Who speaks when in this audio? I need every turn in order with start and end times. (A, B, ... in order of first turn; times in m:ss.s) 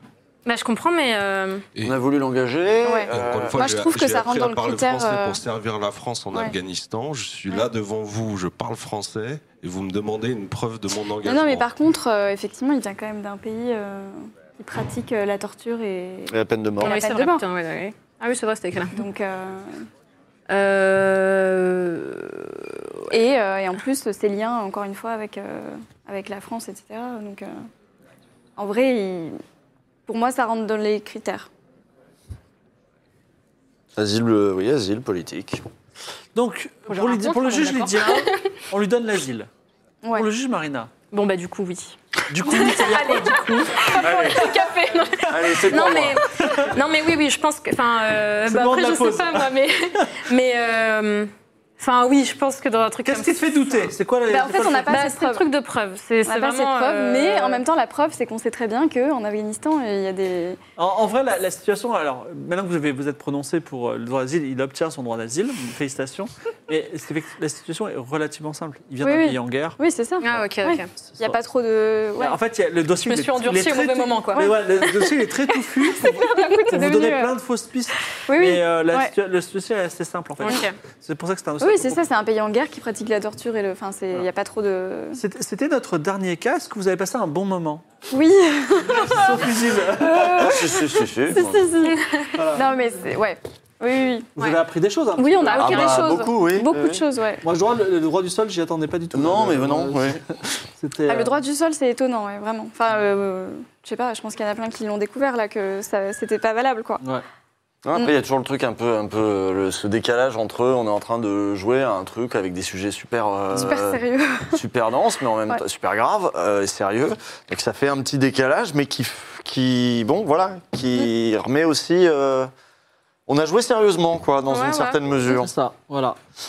0:00.5-0:01.7 A
0:01.8-0:03.6 B
0:02.8-0:05.4 C
0:03.1-0:11.7 D
0:11.2-0:17.4 C
0:16.3-0:16.9 B
0:16.8-0:19.0 A
0:18.9-0:19.9 C
0:20.5-0:22.5 A
0:23.1-0:27.7 C
0:28.6-0:29.4 C
0:30.1-0:31.5 C
0:34.0-0:35.6 B
0:36.4-0:39.5 E
0:36.9-0:38.5 A
0:40.1-0:40.9 E
0:41.1-0:53.9 A
0:42.3-0:44.7 E
0:45.3-0:46.7 E
0:45.3-0:46.2 B
0:48.5-0:49.5 E
0:53.0-0:54.9 E
0:54.3-0:55.5 C
0:54.8-0:57.6 A
0:56.3-1:00.6 C
1:00.8-1:09.8 E
1:09.0-1:12.4 C
1:10.2-1:10.9 A
1:11.0-1:11.4 E
1:12.2-1:22.0 E
1:13.0-1:14.6 A
1:14.3-1:15.2 C
1:15.8-1:17.3 C
1:16.3-1:16.6 A
1:18.1-1:19.1 C
1:20.4-1:20.8 A
1:21.6-1:25.2 C
1:25.2-1:27.8 E
1:28.1-1:34.3 C
1:28.9-1:30.7 E
1:30.4-1:31.7 B
1:31.9-1:32.4 A
1:32.4-1:32.7 E
1:34.4-1:36.1 E
1:35.2-1:37.4 C
1:35.6-1:37.0 B
1:37.4-1:41.4 E
1:39.1-1:40.2 B
1:41.1-1:47.0 C
1:47.8-1:54.0 B
1:53.5-1:54.6 C
1:54.5-2:02.5 B
2:03.3-2:05.5 B
2:04.5-2:05.0 A
2:05.3-2:06.2 E